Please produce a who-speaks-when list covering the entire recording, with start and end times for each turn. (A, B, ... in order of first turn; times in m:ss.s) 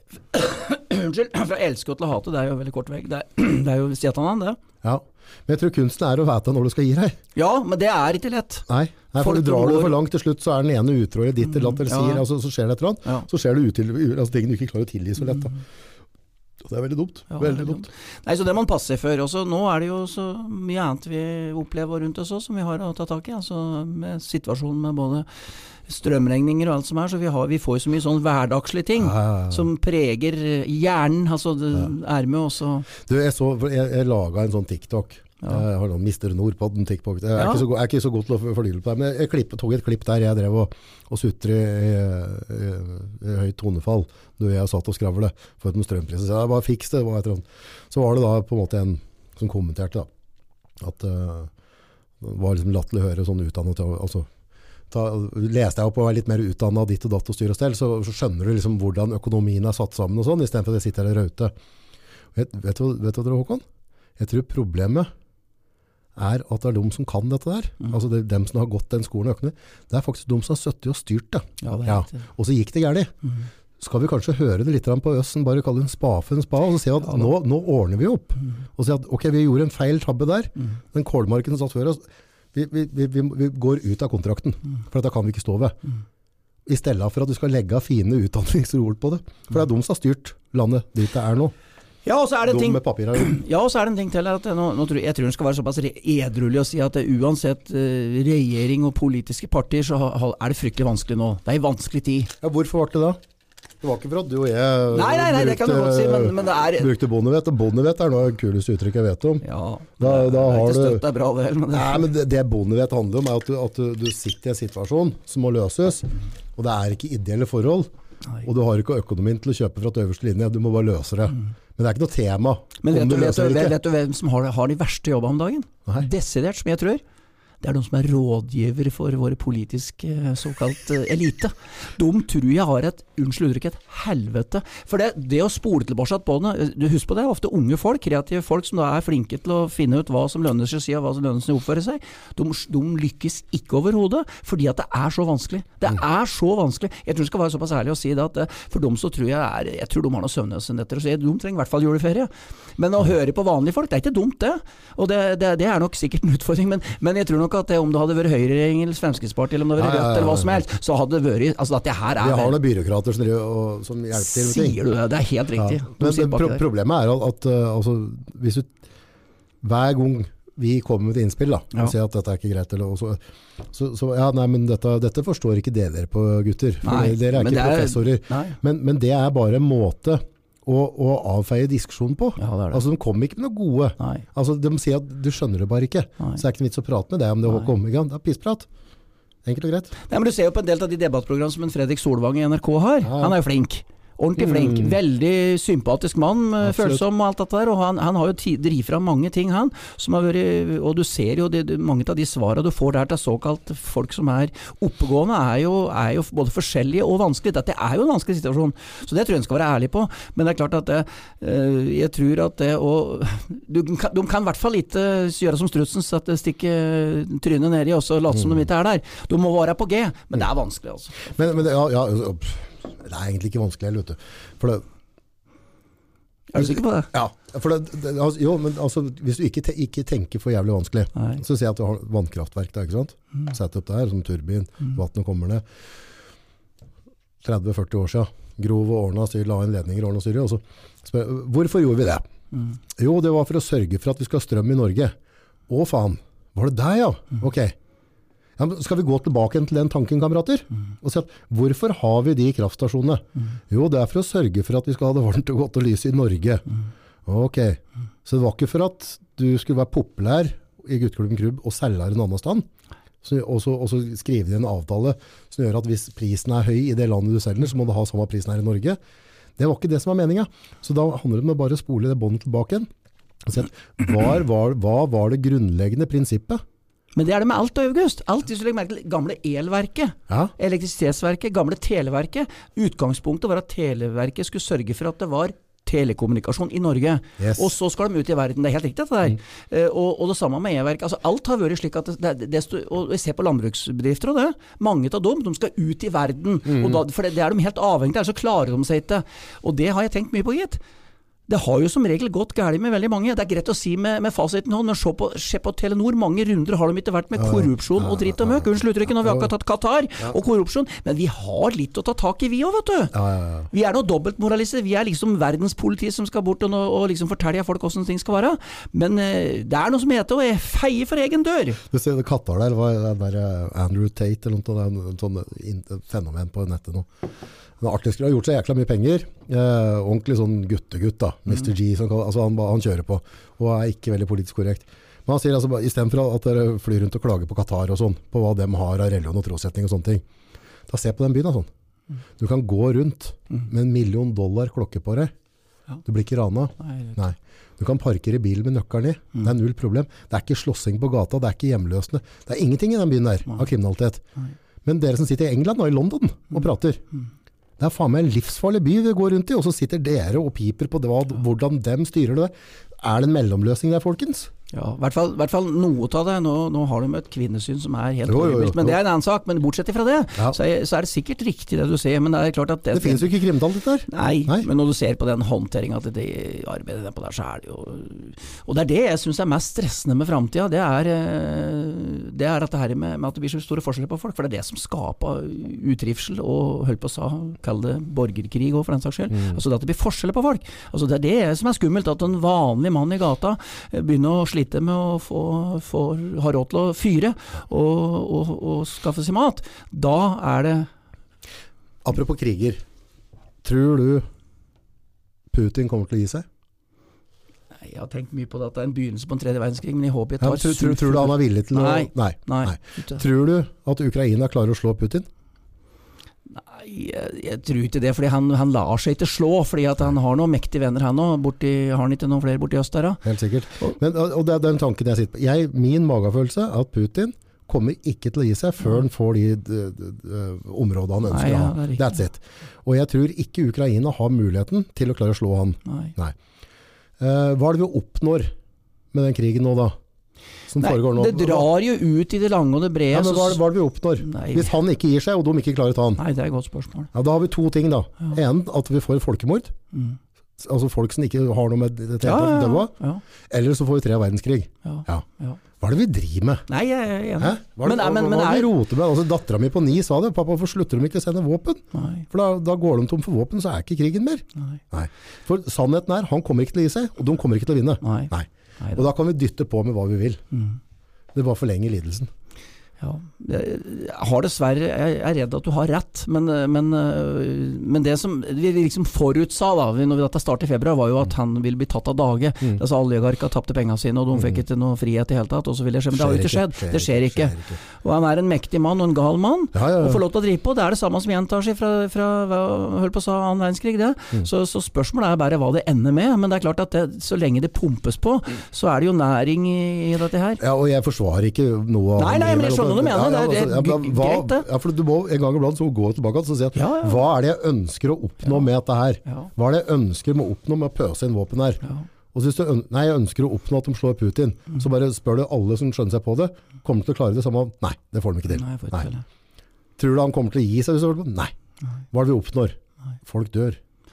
0:00.3-0:04.6 A
0:04.8-0:07.2 B
0:07.4-0:08.6 A
0:08.7-0:15.5 B
0:09.2-0:10.0 A
0:11.6-0:12.2 A
0:16.6-0:17.9 B
0:17.3-0:25.3 A
0:25.8-0:32.9 A
0:29.0-0:29.7 B
0:32.9-0:50.1 B
0:37.4-0:37.6 A
0:50.8-0:51.5 B
0:52.2-0:54.3 B
0:54.9-1:01.5 B
1:02.3-1:03.6 B
1:04.2-1:05.1 B
1:06.2-1:13.1 B
1:11.6-1:12.2 A
1:13.8-1:22.0 B
1:22.5-1:25.8 B
1:26.6-1:31.5 B
1:32.0-1:42.3 A
1:32.4-1:33.4 B
1:42.4-1:43.2 B
1:43.8-1:49.4 B
1:44.9-1:46.9 A
1:49.4-1:52.1 A
1:50.0-1:51.0 B
1:51.7-1:57.9 B
1:58.4-2:03.7 B
2:02.8-2:07.0 A
2:07.6-2:42.6 A
2:39.8-2:40.8 B
2:42.2-2:44.8 B
2:44.2-2:46.6 A
2:45.6-2:48.8 B
2:49.6-3:08.7 B
2:56.8-2:58.6 A
3:02.4-3:02.8 A
3:04.0-3:04.2 A
3:09.4-3:09.9 B
3:10.1-3:41.3 A
3:13.0-3:13.4 B
3:14.4-3:15.0 B
3:16.6-3:17.0 B
3:38.3-3:38.6 B
3:41.2-3:44.8 B
3:46.5-3:47.1 A
3:46.6-3:55.6 B
3:51.2-3:51.4 A
3:57.4-4:02.2 B
4:03.0-4:05.1 B
4:05.7-4:07.8 B
4:08.6-4:16.7 B
4:17.2-4:22.6 B
4:23.2-4:29.0 B
4:29.6-4:32.9 B
4:33.4-4:36.6 B
4:37.2-5:00.8 A
4:47.4-4:47.7 B
4:56.6-4:57.0 B
5:01.5-5:13.2 A
5:07.4-5:09.5 B
5:13.1-5:13.7 B
5:13.7-5:21.8 A
5:21.9-5:27.1 B
5:27.8-5:40.2 B
5:40.9-5:41.7 B
5:42.4-5:45.3 B
5:46.0-5:54.2 B
5:46.8-5:47.2 A
5:54.8-5:57.0 B
5:57.8-6:04.5 B
6:04.7-6:13.4 A
6:08.2-6:09.0 B
6:12.9-6:14.7 B
6:14.1-6:40.9 A
6:29.3-6:29.6 B
6:42.0-6:42.8 B
6:43.6-6:44.2 B
6:45.5-6:46.4 B
6:47.8-6:53.2 A
6:50.4-6:55.2 B
6:56.5-7:03.2 A
7:03.2-7:16.3 B
7:11.3-7:12.2 A
7:15.8-7:16.1 A
7:17.2-7:18.5 B
7:19.1-7:20.0 B
7:20.7-7:21.7 B
7:20.8-7:23.6 A
7:23.1-7:26.2 B
7:24.2-7:24.8 A
7:26.2-7:27.1 A
7:27.1-7:29.7 B
7:29.9-7:30.2 A
7:30.6-7:32.9 B
7:32.2-7:33.2 A
7:33.5-7:35.2 B
7:34.8-7:35.6 A
7:35.8-7:36.6 B
7:36.7-7:38.7 A
7:37.4-7:50.4 B
7:41.9-7:42.2 A
7:48.0-7:49.0 A
7:50.5-7:50.8 A
7:51.3-7:52.3 B
7:53.0-8:20.6 A
8:04.3-8:04.6 B
8:06.1-8:07.8 B
8:09.7-8:10.2 B
8:20.6-8:31.8 B
8:22.2-8:24.6 A
8:26.8-8:27.2 A
8:31.8-8:32.1 A
8:32.3-8:39.1 B
8:38.5-8:39.2 A
8:40.0-8:41.5 B
8:42.1-8:43.8 B